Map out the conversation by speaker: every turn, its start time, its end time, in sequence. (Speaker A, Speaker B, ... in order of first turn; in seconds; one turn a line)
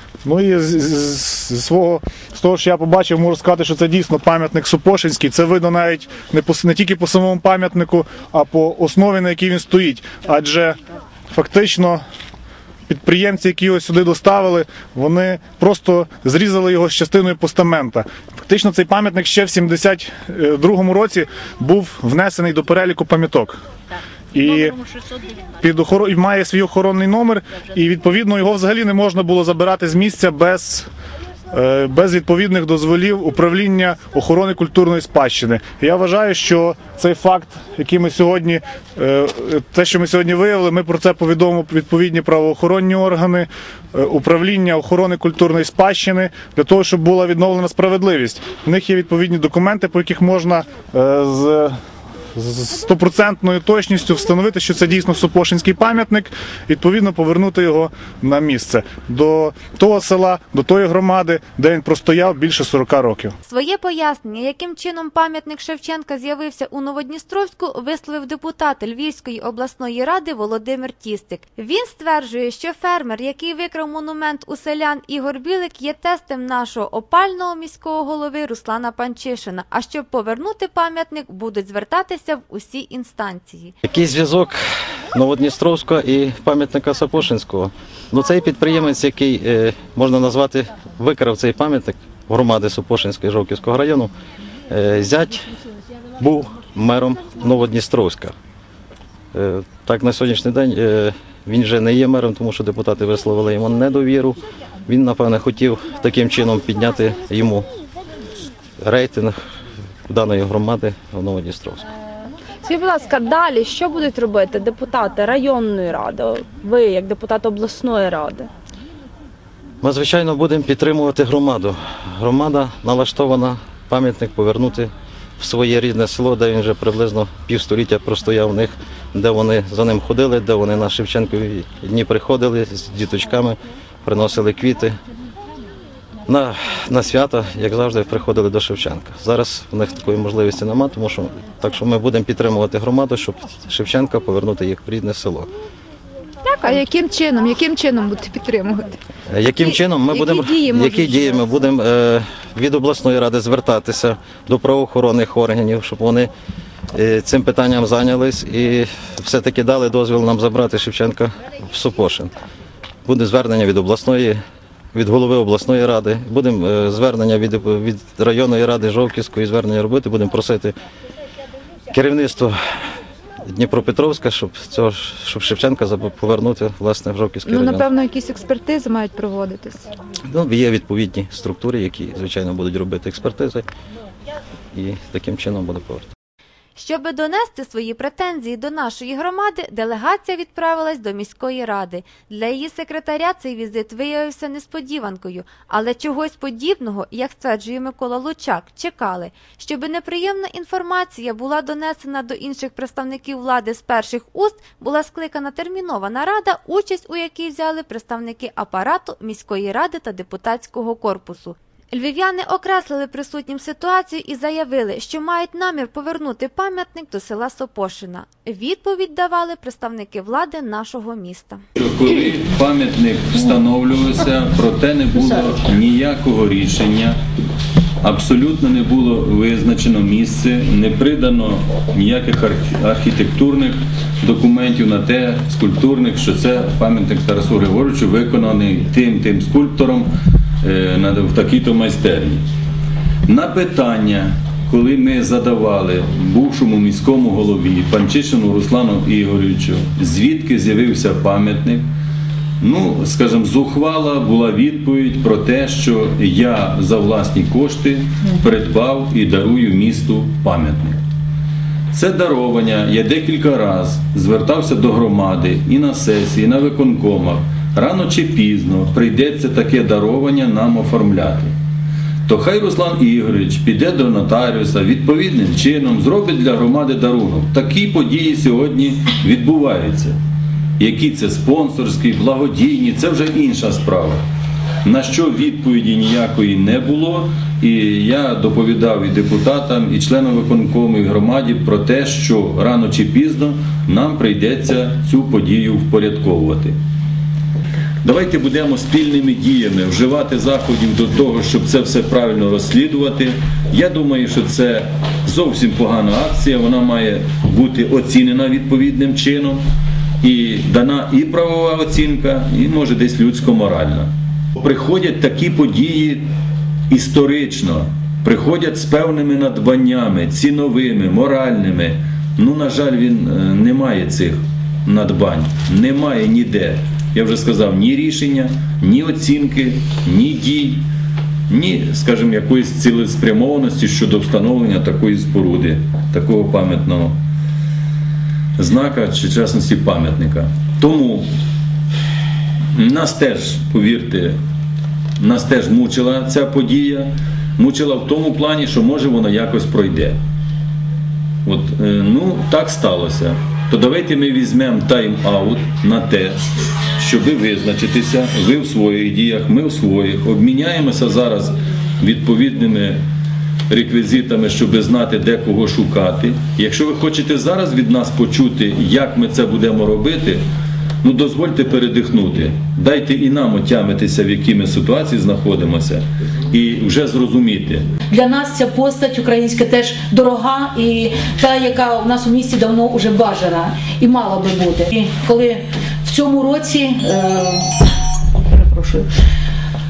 Speaker A: 0.2-10.8
Speaker A: 11.3-12.0
Speaker A: 12.9-23.6
Speaker A: 24.3-24.8
Speaker A: 25.6-30.9
Speaker A: 31.5-51.7
Speaker A: 52.4-63.3
Speaker B: 63.5-83.7
Speaker C: 83.8-84.6
Speaker C: 85.1-94.1
Speaker C: 94.7-95.4
Speaker C: 96.2-98.3
Speaker C: 99.3-107.7
Speaker C: 108.8-109.4
Speaker C: 110.1-111.8
Speaker D: 112.6-118.5
Speaker C: 119.8-135.0
Speaker C: 136.3-145.5
Speaker E: 146.9-148.8
Speaker C: 149.3-156.3
Speaker E: 150.1-151.2
Speaker C: 156.9-162.3
Speaker C: 163.1-164.4
Speaker C: 164.9-170.7
Speaker C: 171.9-172.6
Speaker C: 173.5-177.9
Speaker E: 177.5-179.8
Speaker C: 180.3-183.7
Speaker C: 184.7-186.1
Speaker B: 186.8-221.6
Speaker F: 221.8-227.2
Speaker F: 228.0-240.1
Speaker F: 240.6-242.4
Speaker F: 243.3-251.9
Speaker F: 252.6-261.0
Speaker F: 261.9-271.5
Speaker F: 272.3-280.2
Speaker F: 280.8-284.2
Speaker F: 284.9-296.8
Speaker F: 298.0-309.6
Speaker F: 310.2-316.2
Speaker F: 316.9-330.9
Speaker F: 331.5-337.1
Speaker F: 338.6-341.3
Speaker F: 342.8-344.4
Speaker F: 345.2-350.2
Speaker F: 351.4-356.4
Speaker F: 357.0-363.0
Speaker F: 363.7-370.4
Speaker F: 371.0-377.9
Speaker G: 378.1-387.6
Speaker G: 388.4-389.1